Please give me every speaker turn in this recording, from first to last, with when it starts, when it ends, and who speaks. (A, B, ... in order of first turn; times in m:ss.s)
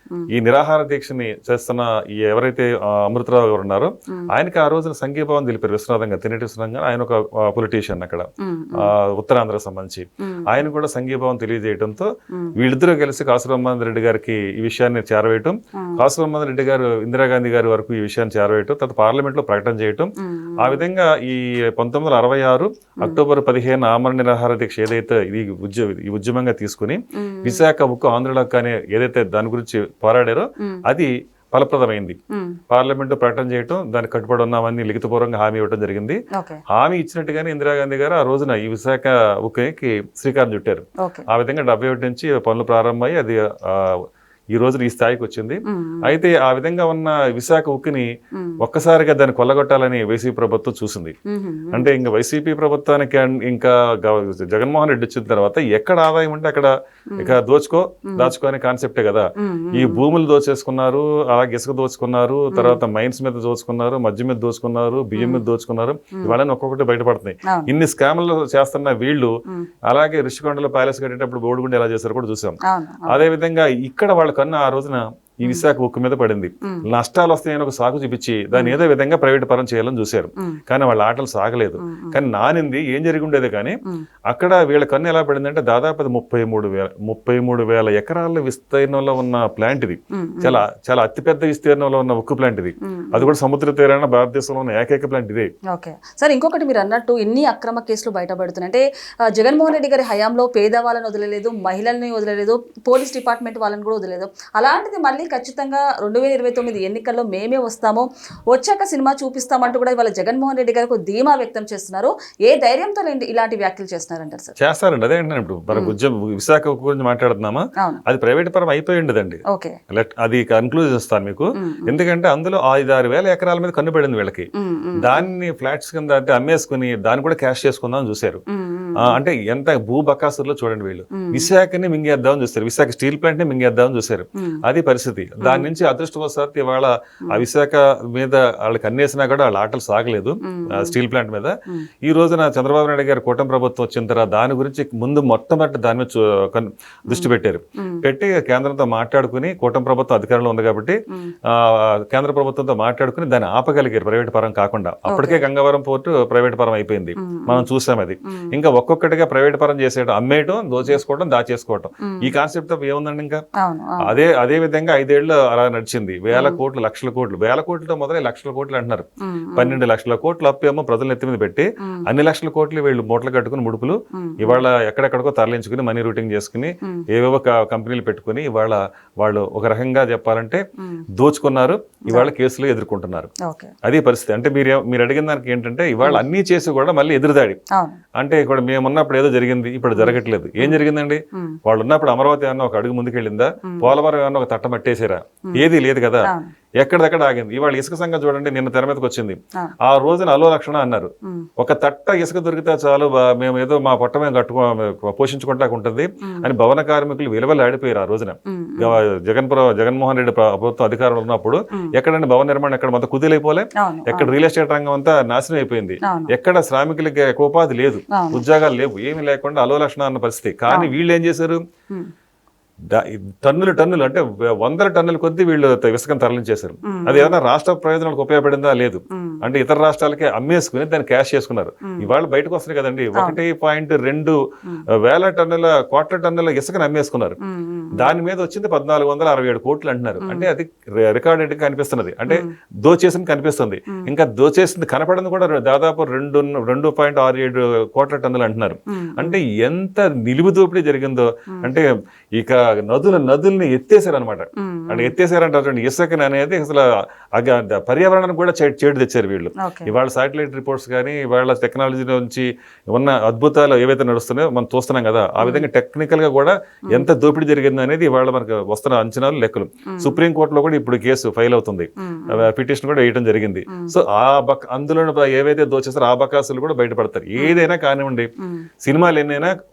0:00.3-0:32.2 A
0:08.4-0:08.9 B
0:10.2-0:10.6 B
0:20.2-0:20.8 B
0:27.2-0:27.6 B
0:32.3-0:32.6 B
0:32.7-0:51.1 A
0:36.3-0:36.6 B
0:45.7-0:46.1 B
0:48.3-0:48.6 B
0:51.3-0:51.9 B
0:51.7-1:09.3 A
0:58.1-0:58.3 B
0:59.4-1:00.0 B
1:02.5-1:02.8 B
1:05.2-1:05.4 B
1:09.9-1:23.8 A
1:12.6-1:13.2 B
1:21.8-1:22.2 B
1:24.3-1:35.5 A
1:30.1-1:30.6 B
1:32.9-1:33.3 B
1:35.7-1:54.5 B
1:54.6-2:08.4 A
1:59.5-1:59.8 B
2:01.6-2:01.9 B
2:04.5-2:05.2 B
2:08.5-2:09.2 B
2:09.0-2:43.4 A
2:11.1-2:11.5 B
2:14.4-2:14.6 B
2:15.4-2:15.7 B
2:20.4-2:21.0 B
2:27.1-2:28.0 B
2:35.1-2:35.4 B
2:37.2-2:37.7 B
2:42.0-2:42.3 B
2:43.6-2:44.2 B
2:44.0-3:00.6 A
2:46.3-2:46.6 B
2:49.2-2:49.8 B
2:51.8-2:52.1 B
2:54.1-2:54.6 B
3:01.2-3:03.3 A
3:03.4-3:03.7 B
3:03.8-3:07.6 A
3:07.7-3:08.0 B
3:08.2-3:41.6 A
3:09.9-3:10.8 B
3:13.6-3:14.0 B
3:16.2-3:16.5 B
3:26.2-3:26.5 B
3:28.5-3:29.0 B
3:33.8-3:34.3 B
3:36.0-3:36.3 B
3:38.1-3:38.4 B
3:42.9-3:54.4 A
3:46.8-3:47.4 B
3:49.1-3:49.4 B
3:51.8-3:52.1 B
3:54.9-3:57.4 A
3:57.4-3:58.2 B
3:58.0-4:38.3 A
4:00.2-4:00.5 B
4:08.9-4:09.4 B
4:14.6-4:15.1 B
4:19.6-4:19.9 B
4:25.4-4:25.7 B
4:29.9-4:30.2 B
4:32.0-4:32.5 B
4:37.4-4:37.6 B
4:38.4-4:38.6 B
4:38.8-4:39.5 A